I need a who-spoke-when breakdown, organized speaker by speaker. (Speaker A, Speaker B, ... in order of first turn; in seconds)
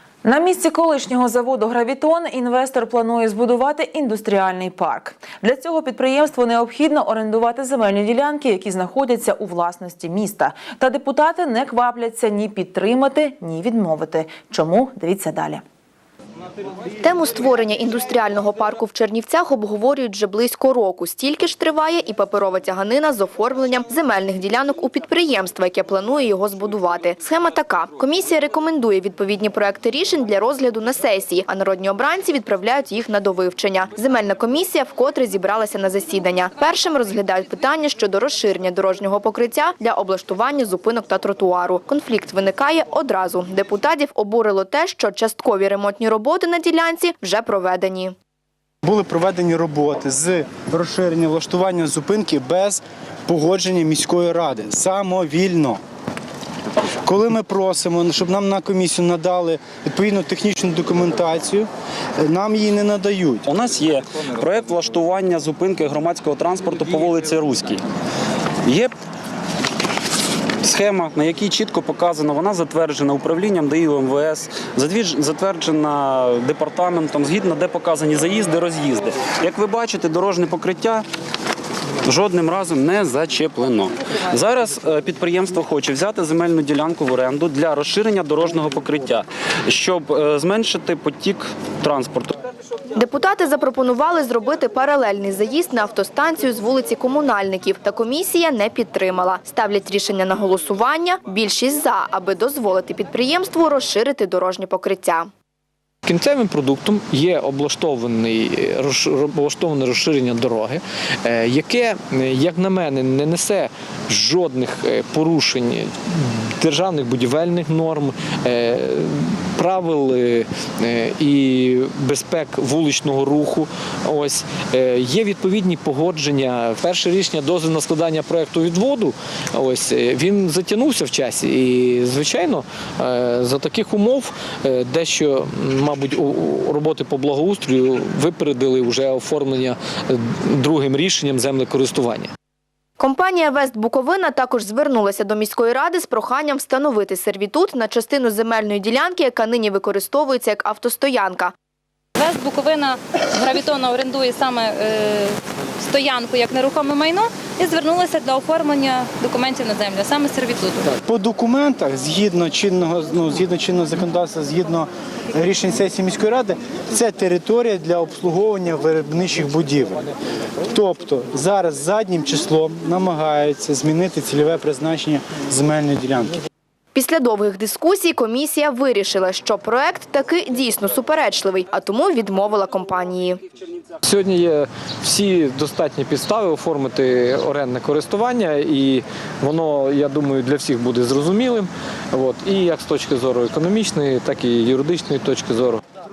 Speaker A: 0.2-15.6
Speaker B: 17.0-48.1, 93.0-105.3, 143.0-151.5, 176.9-183.4
Speaker C: 48.8-55.8, 57.0-61.7, 62.2-63.5, 161.0-170.1, 170.7-176.3
Speaker D: 63.6-67.8, 70.7-81.0, 82.1-89.2, 89.8-92.3
Speaker E: 106.0-115.9, 116.6-142.3, 184.0-195.8
Speaker F: 152.2-160.9